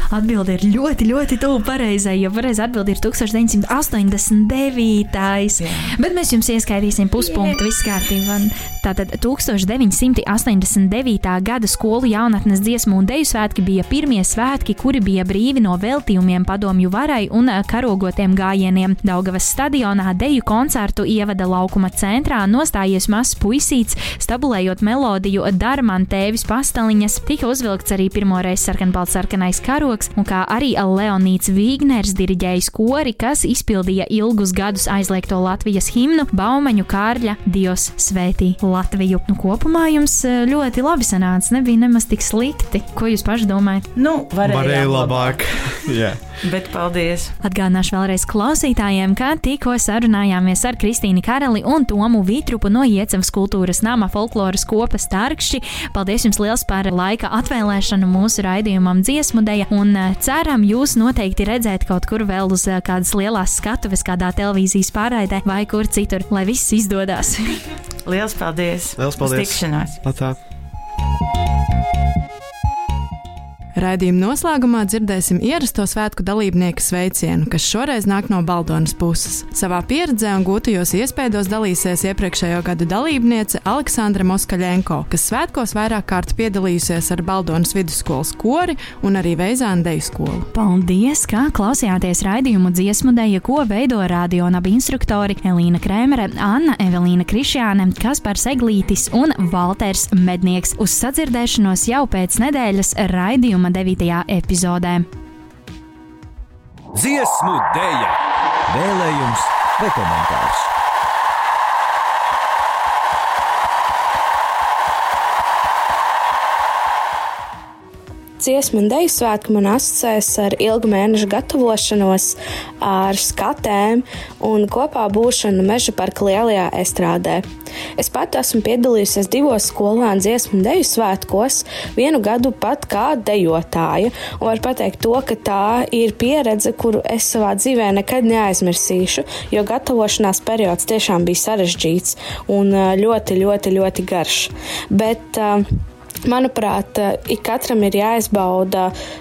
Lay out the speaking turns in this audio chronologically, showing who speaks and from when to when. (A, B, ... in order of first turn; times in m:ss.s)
0:00.1-0:43.9 A
0:05.6-0:05.9 B
0:44.0-0:45.5 B
0:44.4-0:46.4 C
0:46.4-0:47.3 B
0:47.4-1:07.6 A
1:08.1-1:10.0 B
1:09.0-1:10.4 C
1:13.8-1:30.5 D
1:30.5-1:45.1 A
1:46.9-1:50.7 E
1:58.4-2:07.4 F
2:08.0-2:25.6 F
2:26.3-2:28.9 F